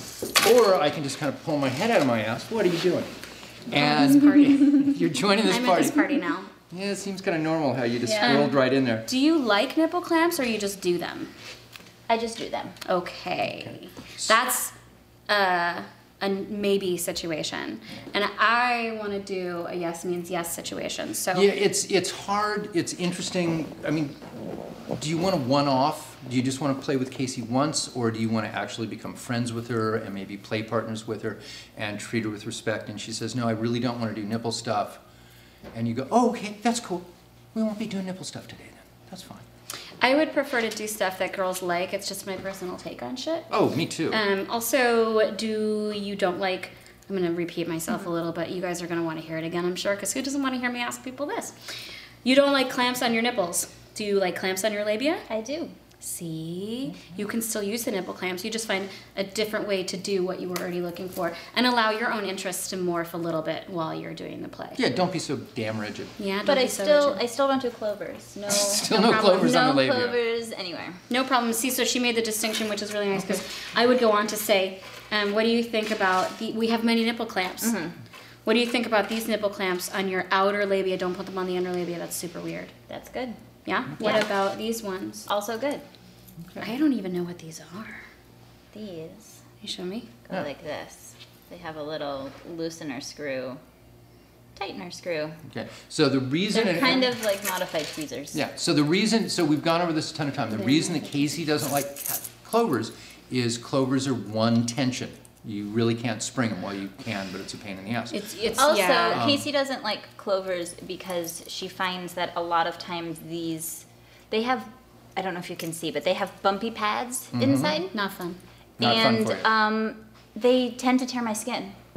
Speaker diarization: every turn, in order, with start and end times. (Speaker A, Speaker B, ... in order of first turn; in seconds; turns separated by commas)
Speaker A: 0.4-3.2, Speaker A: 3.7-6.2, Speaker B: 3.8-4.9, Speaker B: 5.5-6.5, Speaker A: 6.7-9.1, Speaker C: 8.0-8.5, Speaker B: 8.2-11.3, Speaker C: 12.1-12.8, Speaker B: 12.9-14.7, Speaker A: 13.6-14.3, Speaker B: 15.3-21.5, Speaker A: 21.3-24.3, Speaker A: 24.9-35.0, Speaker A: 35.7-39.5, Speaker B: 40.0-43.5, Speaker A: 43.5-44.2, Speaker B: 44.1-51.6, Speaker B: 52.2-55.3, Speaker C: 55.3-55.7, Speaker B: 56.0-64.8, Speaker A: 64.8-66.2, Speaker B: 66.2-67.2, Speaker C: 66.5-71.0, Speaker A: 68.5-70.2, Speaker B: 71.1-77.8, Speaker C: 77.6-78.0, Speaker B: 78.5-82.7, Speaker C: 82.9-83.4, Speaker B: 83.7-85.3, Speaker C: 84.0-84.3, Speaker C: 85.3-85.8, Speaker B: 86.6-88.1, Speaker C: 88.7-89.4, Speaker B: 89.6-90.1, Speaker C: 90.3-93.6, Speaker C: 94.6-95.4, Speaker A: 95.5-97.2, Speaker C: 96.5-98.4, Speaker A: 98.3-108.2, Speaker B: 108.1-109.2, Speaker C: 108.6-117.9, Speaker A: 109.1-109.5, Speaker A: 117.3-117.8, Speaker B: 117.9-118.4, Speaker A: 118.8-119.5, Speaker C: 118.8-121.8